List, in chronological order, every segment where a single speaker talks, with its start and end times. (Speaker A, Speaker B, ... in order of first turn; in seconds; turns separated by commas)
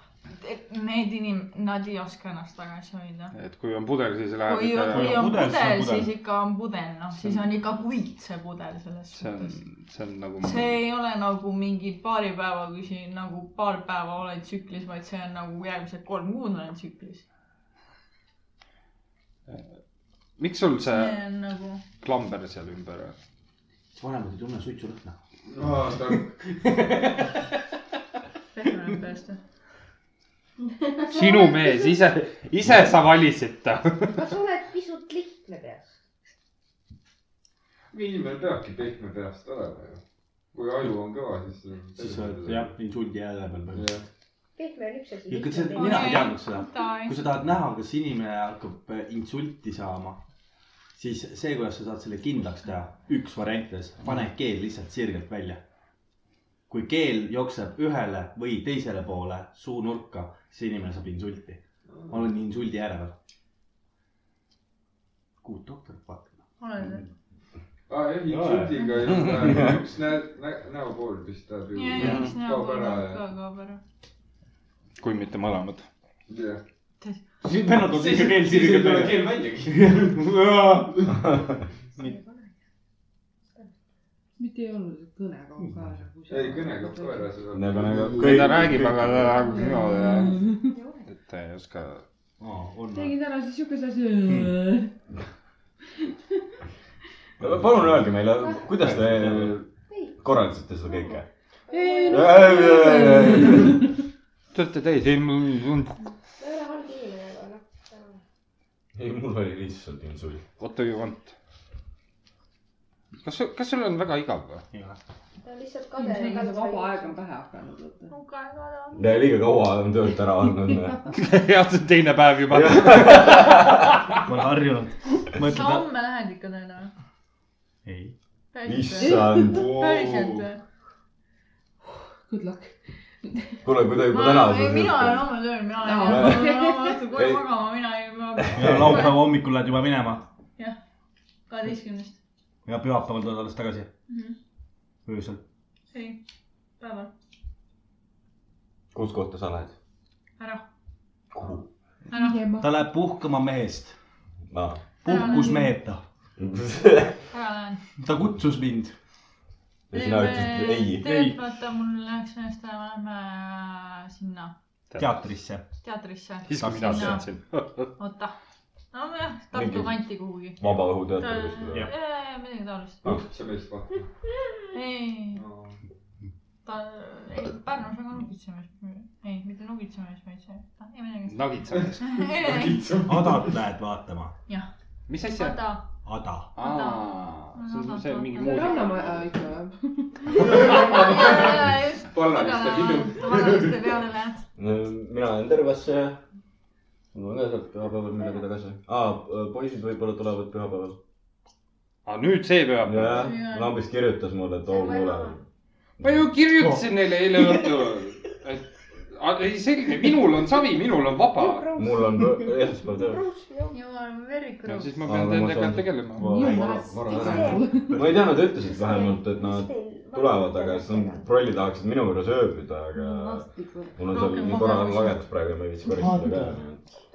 Speaker A: 0.4-3.3, Speaker B: 3.3-5.3, Speaker A: 4.5-9.6, Speaker C: 4.9-6.1, Speaker B: 7.2-7.4, Speaker B: 9.1-10.7, Speaker A: 10.4-17.2, Speaker B: 19.5-19.7, Speaker B: 20.4-21.2, Speaker A: 20.8-21.8, Speaker B: 22.0-23.1, Speaker C: 23.9-25.2, Speaker D: 25.5-26.3, Speaker C: 26.1-27.4, Speaker A: 28.5-29.4, Speaker E: 31.0-31.7, Speaker B: 31.1-34.2, Speaker E: 34.1-36.0, Speaker D: 37.9-40.0, Speaker D: 40.5-42.7, Speaker C: 42.0-43.9, Speaker D: 43.7-44.0, Speaker E: 44.6-46.2, Speaker C: 45.3-50.2, Speaker A: 45.7-47.2, Speaker C: 50.9-55.6, Speaker C: 56.7-63.1, Speaker D: 61.9-62.2, Speaker C: 65.4-66.4, Speaker A: 66.6-67.0, Speaker D: 67.9-73.2, Speaker C: 68.3-68.8, Speaker A: 68.8-69.2, Speaker F: 69.4-69.8, Speaker A: 71.7-73.8, Speaker B: 72.0-72.3, Speaker B: 75.0-75.9, Speaker D: 76.3-76.6, Speaker C: 77.4-80.9, Speaker D: 77.8-80.3, Speaker E: 82.0-82.5, Speaker G: 84.4-87.3, Speaker C: 85.6-85.9, Speaker D: 86.3-88.8, Speaker F: 87.5-89.4, Speaker B: 88.2-90.3, Speaker G: 89.4-90.8, Speaker E: 90.6-91.1, Speaker B: 91.1-92.0, Speaker C: 92.4-93.1, Speaker G: 92.9-94.9, Speaker F: 97.4-99.6, Speaker C: 97.4-97.9, Speaker E: 98.4-98.6, Speaker C: 98.8-99.4, Speaker D: 99.0-99.5, Speaker E: 99.9-100.1, Speaker F: 100.2-101.2, Speaker E: 100.9-103.3, Speaker G: 101.7-103.8, Speaker F: 102.1-103.7, Speaker B: 104.5-106.0, Speaker E: 106.4-108.2, Speaker F: 109.0-110.4, Speaker B: 110.6-111.3, Speaker B: 113.2-114.6, Speaker C: 114.7-115.0, Speaker E: 115.4-117.2, Speaker G: 116.0-118.1, Speaker A: 118.1-119.4, Speaker F: 118.9-121.1, Speaker B: 121.1-124.2, Speaker F: 122.5-123.9, Speaker C: 124.2-125.8, Speaker A: 125.4-126.9, Speaker C: 127.8-128.1, Speaker A: 128.5-130.6, Speaker F: 128.6-129.7, Speaker G: 129.0-129.6, Speaker D: 129.5-130.4, Speaker G: 132.2-133.6, Speaker F: 133.6-135.3, Speaker A: 134.0-139.2, Speaker G: 135.8-137.0, Speaker F: 136.1-136.4, Speaker F: 137.1-137.4, Speaker F: 138.4-139.1, Speaker C: 138.5-140.2, Speaker A: 141.5-142.2, Speaker C: 142.6-143.9, Speaker A: 144.1-144.3, Speaker C: 145.1-145.4, Speaker A: 145.9-146.2, Speaker A: 146.8-147.1, Speaker F: 148.9-149.7, Speaker A: 150.4-150.6, Speaker F: 151.3-151.7, Speaker A: 152.1-152.4, Speaker E: 152.1-152.6, Speaker G: 152.3-152.6, Speaker C: 152.6-153.9, Speaker F: 154.5-154.8, Speaker C: 155.0-156.0, Speaker A: 155.0-155.8, Speaker F: 156.4-157.2, Speaker A: 157.3-157.8, Speaker C: 158.0-158.9, Speaker F: 159.9-161.1, Speaker A: 159.9-164.5, Speaker C: 161.0-161.4, Speaker B: 164.9-165.2, Speaker C: 165.0-165.7, Speaker A: 165.8-167.3, Speaker B: 166.5-167.9, Speaker C: 166.6-167.2, Speaker A: 168.0-168.3, Speaker A: 168.9-173.2, Speaker F: 169.5-170.0, Speaker F: 170.6-171.9, Speaker D: 173.0-174.1, Speaker A: 174.7-175.4, Speaker D: 175.3-175.8, Speaker A: 176.6-183.0, Speaker B: 181.3-182.2, Speaker D: 181.8-183.5, Speaker C: 183.0-184.3, Speaker A: 184.5-185.8, Speaker B: 185.1-185.6, Speaker C: 186.0-186.5, Speaker A: 186.6-189.0, Speaker B: 186.6-189.2, Speaker G: 188.3-190.9, Speaker A: 190.3-194.4, Speaker D: 190.4-193.8, Speaker F: 194.6-196.2, Speaker F: 197.1-201.0, Speaker B: 202.0-203.3, Speaker F: 202.8-205.4, Speaker A: 203.0-203.7, Speaker E: 204.7-205.4, Speaker F: 206.0-206.2, Speaker B: 206.0-211.7, Speaker C: 206.6-207.7, Speaker E: 211.3-213.8, Speaker F: 211.7-213.2, Speaker A: 213.7-215.0, Speaker B: 214.7-216.2, Speaker F: 215.0-226.8, Speaker G: 216.2-218.1, Speaker E: 216.4-217.6, Speaker E: 218.6-221.3, Speaker G: 222.9-224.5, Speaker A: 224.1-225.2, Speaker C: 225.8-226.6